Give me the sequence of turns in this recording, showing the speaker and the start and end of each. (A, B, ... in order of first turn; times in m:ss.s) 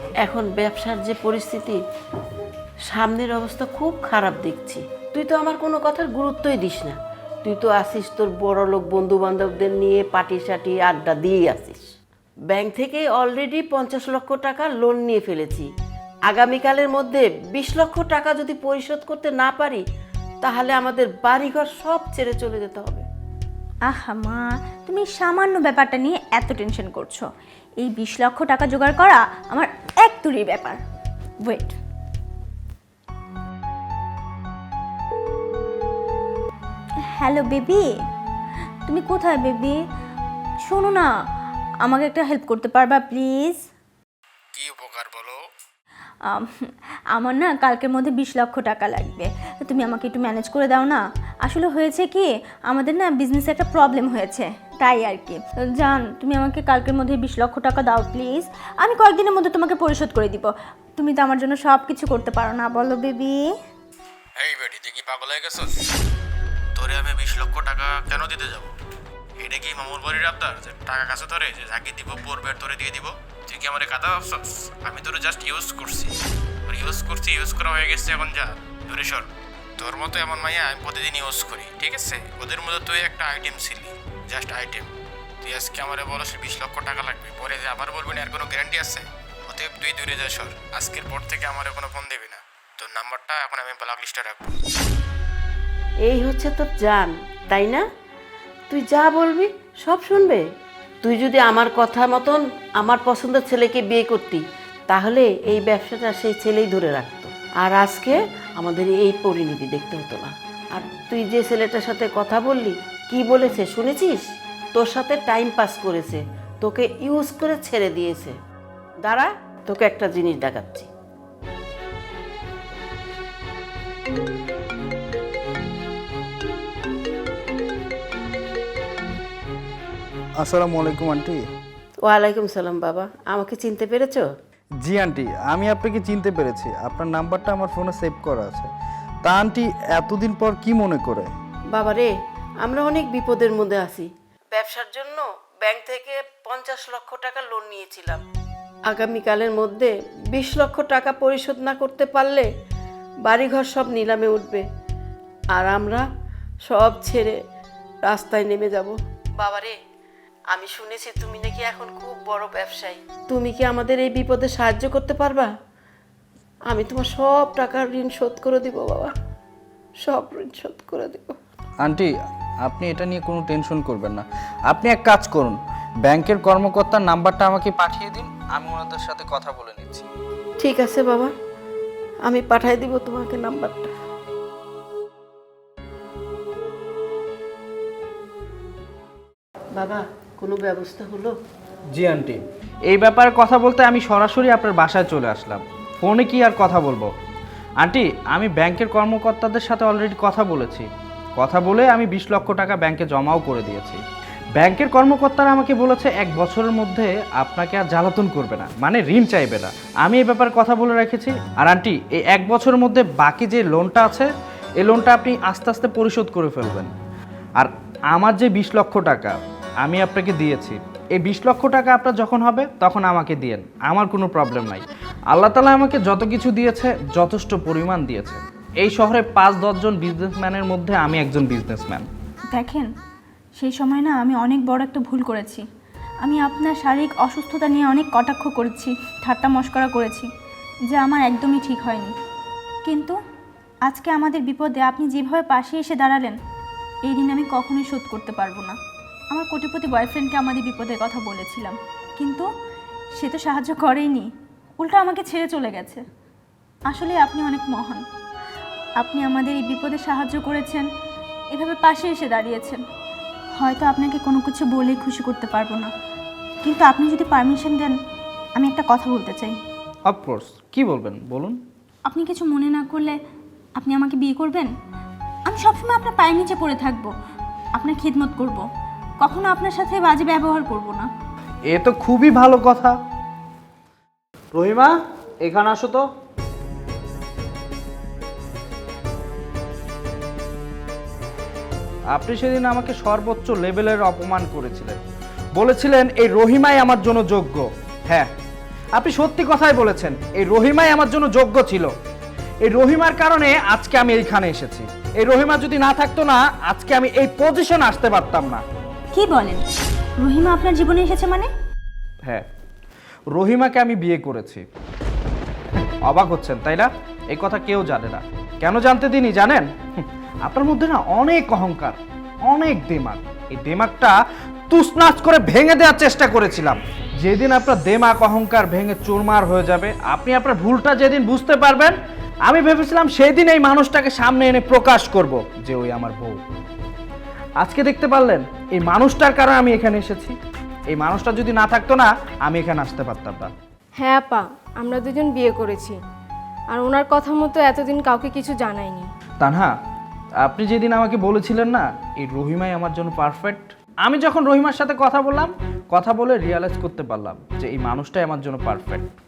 0:00.2-0:01.8 A
0:02.9-0:11.8 A
0:12.5-0:15.6 A
0:16.3-0:19.8 A
0:20.4-0:23.0 A
0:23.9-0:27.3 B
0:27.8-0:30.8 B
0:31.4-0:31.8 B
0:37.1-0:37.9 B
0:38.9-0:39.8 B
0:40.6-0:41.1 B
0:41.8-0:43.6 B
0:44.5-0:45.4 C
0:46.2-1:03.4 B
1:04.4-1:05.7 C
1:06.8-1:08.7 C
1:09.4-1:16.1 C
1:16.7-1:19.3 C
1:19.8-1:24.8 C
1:25.4-1:34.5 C
1:36.0-1:37.8 A
1:38.7-1:40.4 A
1:41.0-1:54.2 A
1:54.8-1:58.4 A
1:59.0-2:00.9 A
2:10.4-2:11.4 D
2:12.0-2:14.2 A
2:14.8-2:18.7 D
2:19.2-2:21.3 D
2:21.7-2:22.1 A
2:22.6-2:28.2 A
2:28.9-2:32.4 A
2:33.2-2:34.6 A
2:35.6-2:36.0 A
2:36.7-2:37.3 A
2:38.0-2:39.7 A
2:40.5-2:45.5 A
2:46.7-2:49.1 A
2:50.0-2:51.3 A
2:51.8-2:52.1 D
2:52.6-3:00.0 D
3:00.6-3:01.3 A
3:02.3-3:03.9 A
3:09.8-3:11.3 A
3:11.9-3:17.1 D
3:17.8-3:24.0 D
3:24.6-3:34.3 D
3:34.8-3:36.9 D
3:37.6-3:52.1 D
3:52.5-3:52.9 B
3:53.6-3:55.6 B
3:56.2-4:00.3 B
4:00.9-4:02.1 B
4:02.8-4:03.2 B
4:03.9-4:06.4 B
4:07.0-4:08.8 B
4:09.3-4:12.5 B
4:13.2-4:16.0 B
4:16.9-4:18.0 B
4:19.0-4:20.8 B
4:21.5-4:22.8 B
4:23.6-4:25.9 B
4:26.6-4:28.0 B
4:28.6-4:29.6 B
4:30.0-4:31.6 D
4:32.1-4:33.2 B
4:33.8-4:34.7 B
4:35.5-4:37.1 B
4:37.8-4:38.6 B
4:39.2-4:41.1 B
4:41.7-4:43.0 D
4:44.5-4:46.0 D
4:52.1-4:55.0 D
4:55.5-4:58.3 D
4:59.0-5:01.9 D
5:02.6-5:08.6 D
5:09.1-5:09.6 B
5:10.2-5:11.5 B
5:13.3-5:14.6 D
5:16.0-5:24.2 D
5:24.7-5:36.4 D
5:37.6-5:40.4 D
5:40.9-5:43.5 D
5:44.0-5:46.0 E
5:46.7-5:49.1 E
5:49.4-5:49.7 D
5:50.4-5:59.1 D